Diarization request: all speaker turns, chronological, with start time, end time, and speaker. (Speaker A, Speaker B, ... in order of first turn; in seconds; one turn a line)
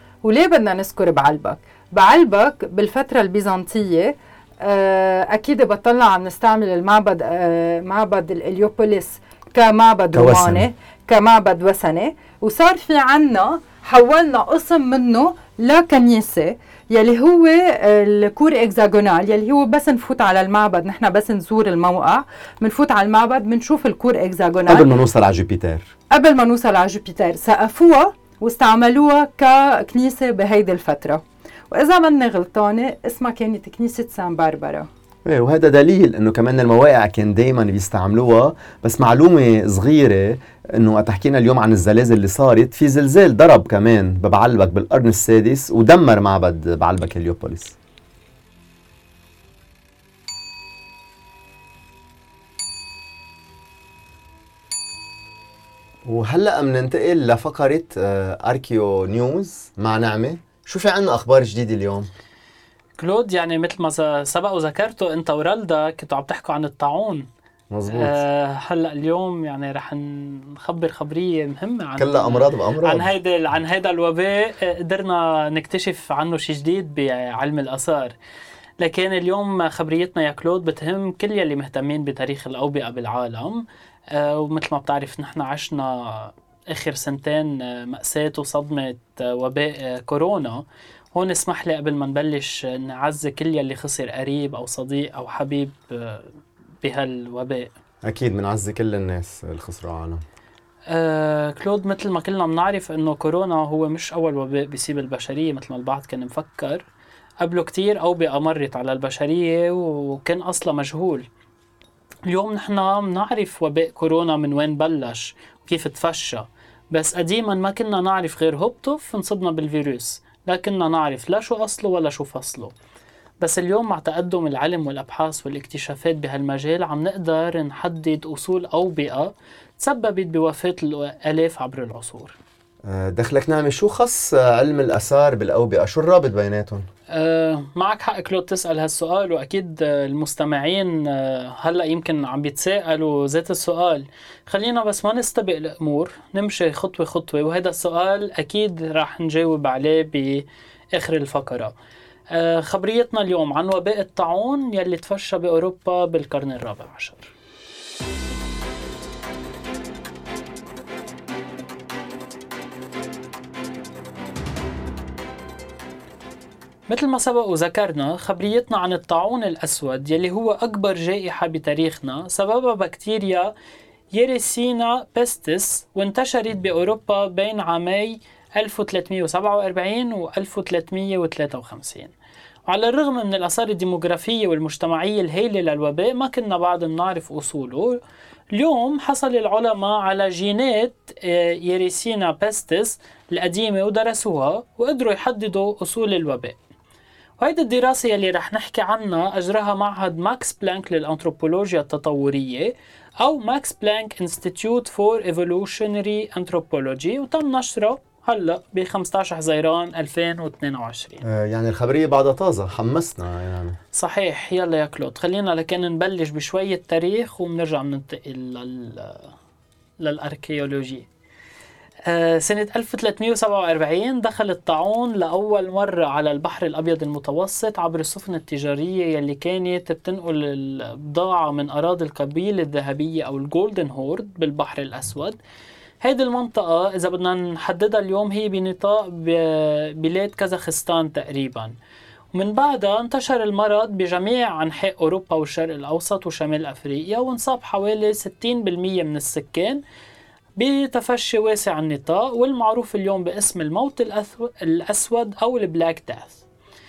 Speaker A: 0.2-24.9
Speaker B: 10.1-10.7
Speaker B: 24.7-25.9
Speaker A: 26.1-34.9
Speaker B: 35.2-47.8
Speaker B: 56.0-62.1
Speaker C: 63.0-67.3
Speaker B: 67.7-68.2
Speaker C: 67.9-78.1
Speaker B: 72.0-73.1
Speaker C: 78.8-96.3
Speaker C: 96.8-97.7
Speaker B: 98.0-100.2
Speaker C: 100.9-106.8
Speaker C: 107.4-111.3
Speaker C: 112.3-122.7
Speaker C: 123.4-132.4
Speaker B: 132.9-136.9
Speaker C: 137.1-151.7
Speaker C: 152.3-157.3
Speaker C: 166.9-173.5
Speaker C: 174.1-182.1
Speaker C: 182.7-188.0
Speaker C: 188.5-196.6
Speaker C: 197.4-211.2
Speaker B: 211.2-213.8
Speaker C: 213.9-219.3
Speaker C: 220.0-221.1
Speaker C: 222.1-235.4
Speaker C: 236.0-241.7
Speaker C: 242.3-249.8
Speaker C: 250.6-256.4